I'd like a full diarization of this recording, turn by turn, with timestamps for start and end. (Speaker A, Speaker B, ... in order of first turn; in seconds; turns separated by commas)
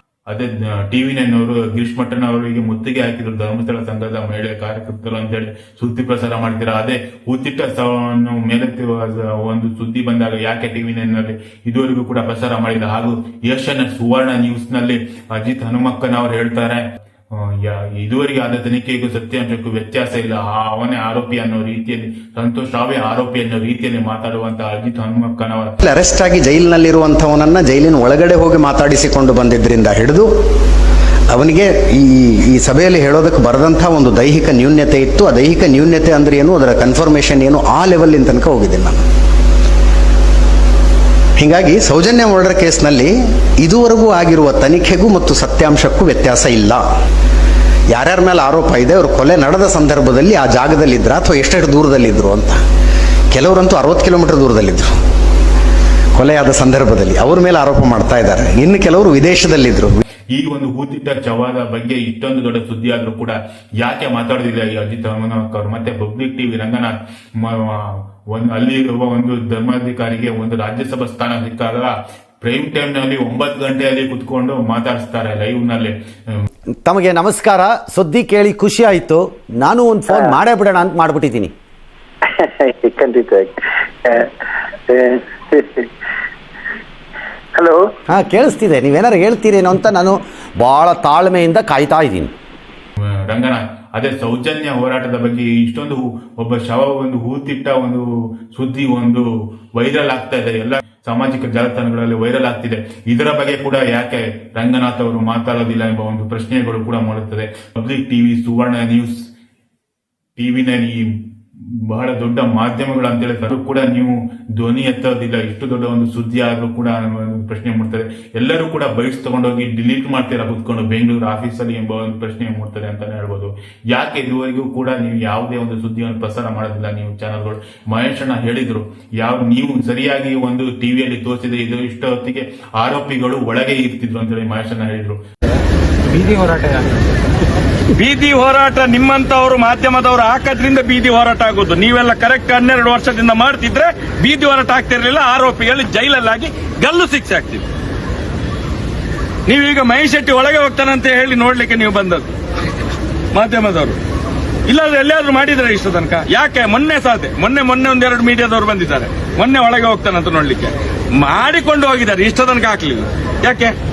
Speaker A: 0.3-25.7, Speaker B: 25.8-30.3, Speaker B: 31.3-39.0, Speaker B: 41.4-46.8, Speaker B: 47.9-52.6, Speaker B: 53.3-54.9, Speaker B: 56.1-60.0, Speaker A: 60.3-76.5, Speaker C: 76.8-81.5, Speaker D: 80.1-80.4, Speaker D: 82.3-83.5, Speaker D: 84.9-85.9, Speaker D: 87.5-87.8, Speaker C: 88.1-92.3, Speaker A: 93.0-109.2, Speaker A: 110.4-111.1, Speaker A: 111.9-135.2, Speaker E: 138.0-147.6, Speaker E: 149.5-152.3, Speaker E: 153.3-154.0, Speaker E: 154.7-163.7